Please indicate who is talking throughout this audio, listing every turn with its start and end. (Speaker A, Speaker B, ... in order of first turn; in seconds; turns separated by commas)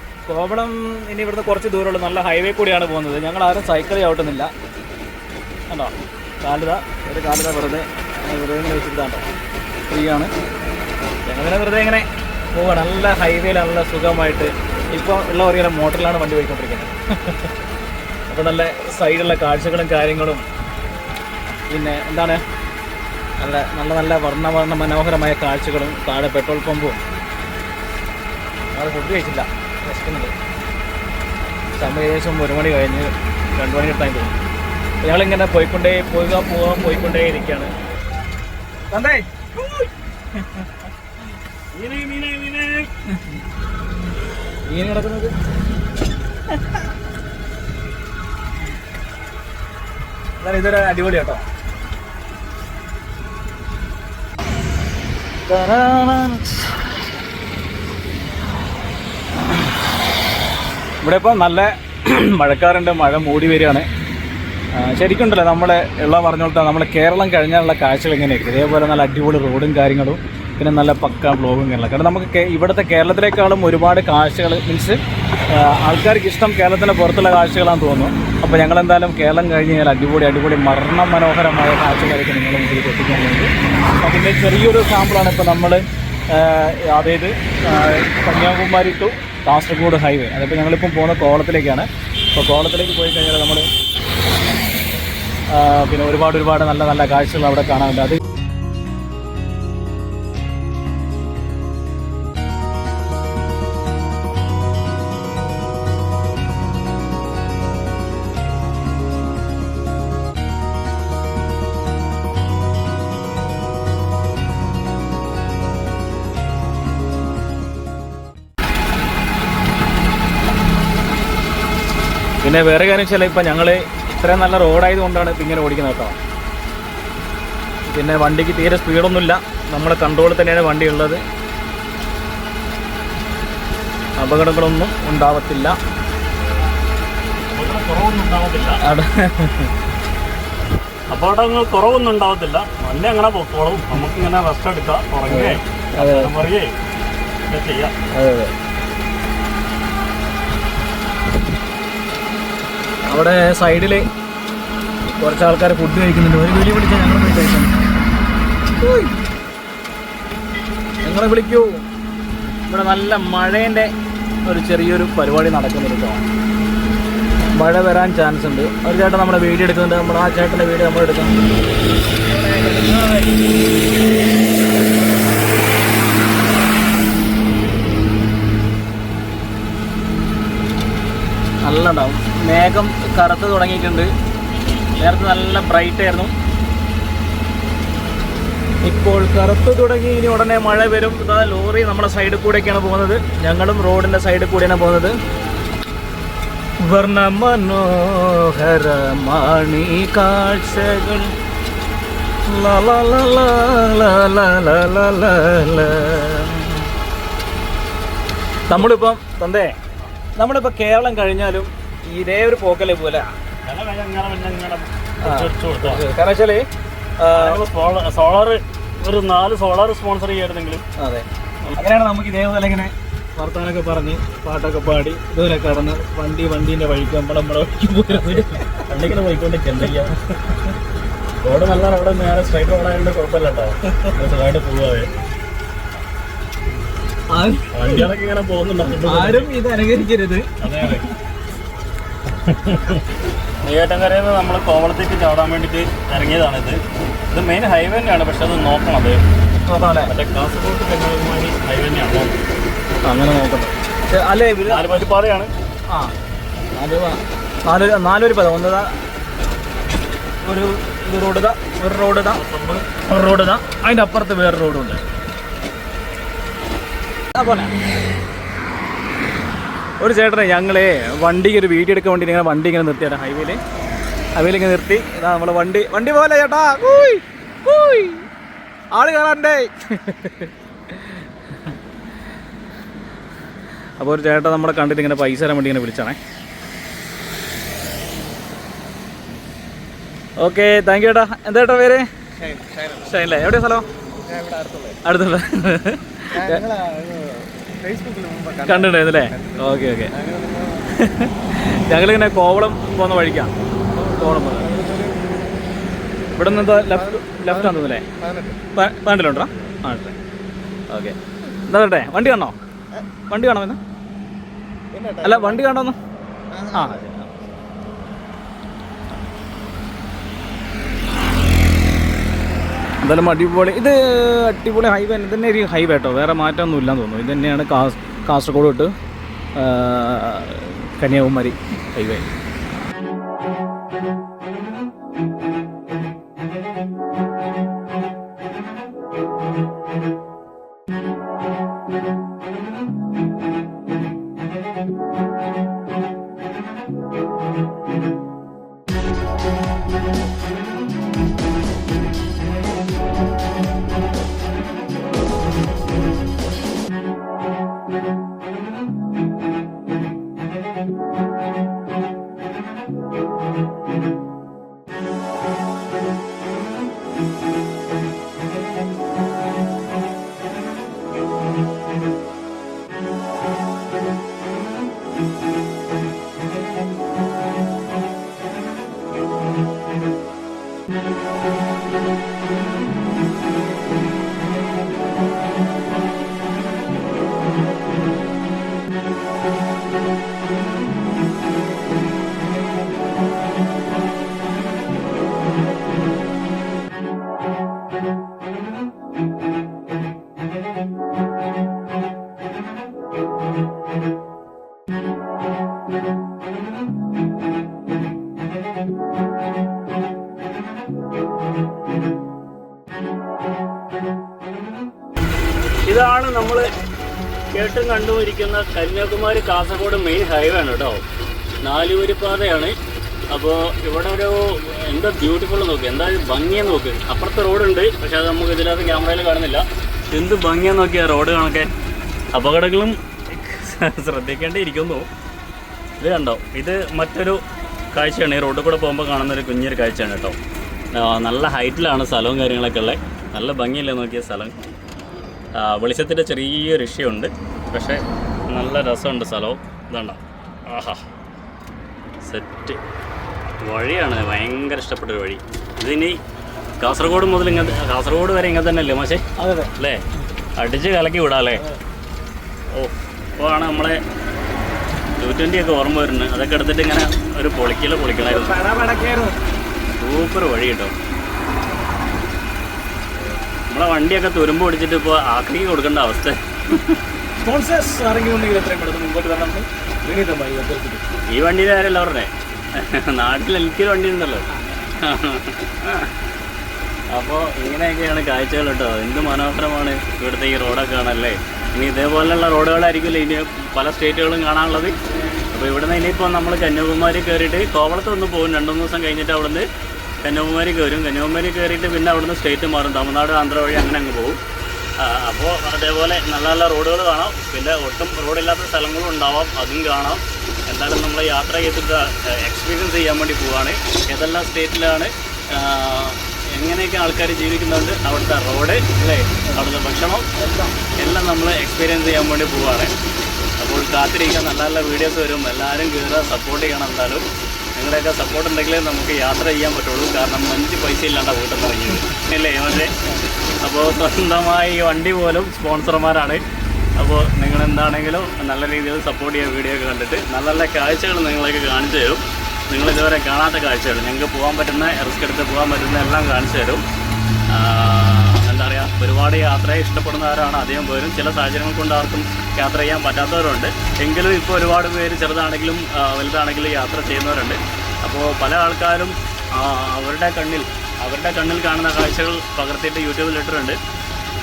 Speaker A: 0.3-4.5, Speaker A: 5.7-9.3, Speaker A: 9.9-10.3, Speaker A: 11.2-17.5, Speaker A: 18.3-20.4, Speaker A: 21.7-22.4, Speaker A: 23.4-27.0, Speaker A: 28.7-30.3, Speaker A: 31.8-34.4, Speaker A: 35.0-37.7, Speaker A: 38.9-40.7, Speaker B: 41.7-43.0, Speaker A: 44.7-45.3, Speaker A: 50.4-51.5, Speaker A: 55.5-56.8, Speaker A: 61.0-63.9, Speaker A: 64.7-75.0, Speaker A: 75.5-93.7, Speaker A: 95.5-98.2, Speaker A: 122.4-126.2, Speaker A: 127.9-131.2, Speaker A: 134.2-135.8, Speaker B: 137.5-138.8, Speaker A: 138.8-139.7, Speaker B: 141.1-146.7, Speaker A: 145.3-146.3, Speaker B: 147.5-147.9, Speaker A: 148.1-148.5, Speaker A: 153.1-154.1, Speaker A: 155.1-157.8, Speaker A: 158.8-159.1, Speaker A: 161.0-161.8, Speaker A: 162.7-163.9, Speaker A: 164.4-166.2, Speaker A: 167.5-171.4, Speaker A: 172.3-173.2, Speaker A: 181.6-184.1, Speaker A: 184.9-186.3, Speaker A: 188.8-195.2, Speaker A: 196.8-201.3, Speaker A: 202.4-206.9, Speaker A: 208.7-209.8, Speaker A: 210.4-213.3, Speaker B: 213.6-216.0, Speaker A: 215.2-216.7, Speaker A: 217.2-217.6, Speaker B: 217.3-220.8, Speaker A: 221.0-228.7, Speaker B: 228.2-230.6, Speaker B: 231.4-235.1, Speaker A: 237.3-238.1, Speaker B: 237.7-239.5, Speaker A: 239.0-241.0, Speaker B: 240.6-241.1, Speaker B: 242.3-243.1, Speaker B: 243.6-249.2, Speaker A: 249.7-250.1, Speaker B: 250.1-252.4, Speaker A: 253.0-255.0, Speaker B: 254.7-255.5, Speaker A: 256.7-258.9, Speaker A: 260.4-262.4, Speaker B: 262.3-263.0, Speaker A: 263.1-265.0, Speaker A: 267.3-267.7, Speaker A: 270.0-273.6, Speaker A: 274.4-278.3, Speaker A: 278.9-281.7, Speaker A: 284.0-286.2, Speaker A: 290.4-292.1, Speaker C: 292.4-293.0, Speaker A: 293.0-293.9, Speaker C: 294.3-295.0, Speaker A: 295.0-296.6, Speaker C: 296.6-298.8, Speaker A: 298.6-300.1, Speaker C: 300.2-300.8, Speaker A: 300.9-304.9, Speaker C: 304.8-305.2, Speaker A: 306.3-308.1, Speaker C: 308.1-308.6, Speaker A: 308.7-310.1, Speaker A: 310.9-312.5, Speaker A: 313.3-313.8, Speaker C: 314.9-315.4, Speaker A: 315.2-315.9, Speaker A: 316.6-317.3, Speaker A: 323.0-328.9, Speaker A: 329.6-332.3, Speaker B: 415.9-416.7, Speaker B: 417.5-421.0, Speaker B: 421.6-422.8, Speaker B: 423.3-431.7, Speaker B: 432.3-435.1, Speaker B: 436.0-437.4, Speaker B: 437.9-440.4, Speaker B: 440.9-444.5, Speaker B: 445.6-451.0, Speaker B: 452.2-452.8, Speaker B: 453.6-456.2, Speaker B: 456.8-459.2, Speaker A: 459.4-459.7, Speaker B: 460.6-461.6, Speaker B: 462.7-464.0, Speaker B: 465.2-468.6, Speaker A: 468.2-469.4, Speaker B: 470.0-470.9, Speaker B: 473.7-477.0, Speaker A: 477.4-481.0, Speaker B: 481.3-484.4, Speaker A: 484.5-484.9, Speaker B: 485.0-486.1, Speaker B: 487.1-495.0, Speaker B: 495.5-499.7, Speaker B: 500.2-504.4, Speaker B: 505.0-522.9, Speaker A: 520.4-520.7, Speaker B: 523.6-533.1, Speaker B: 533.6-536.4, Speaker B: 537.0-546.8, Speaker B: 547.5-563.8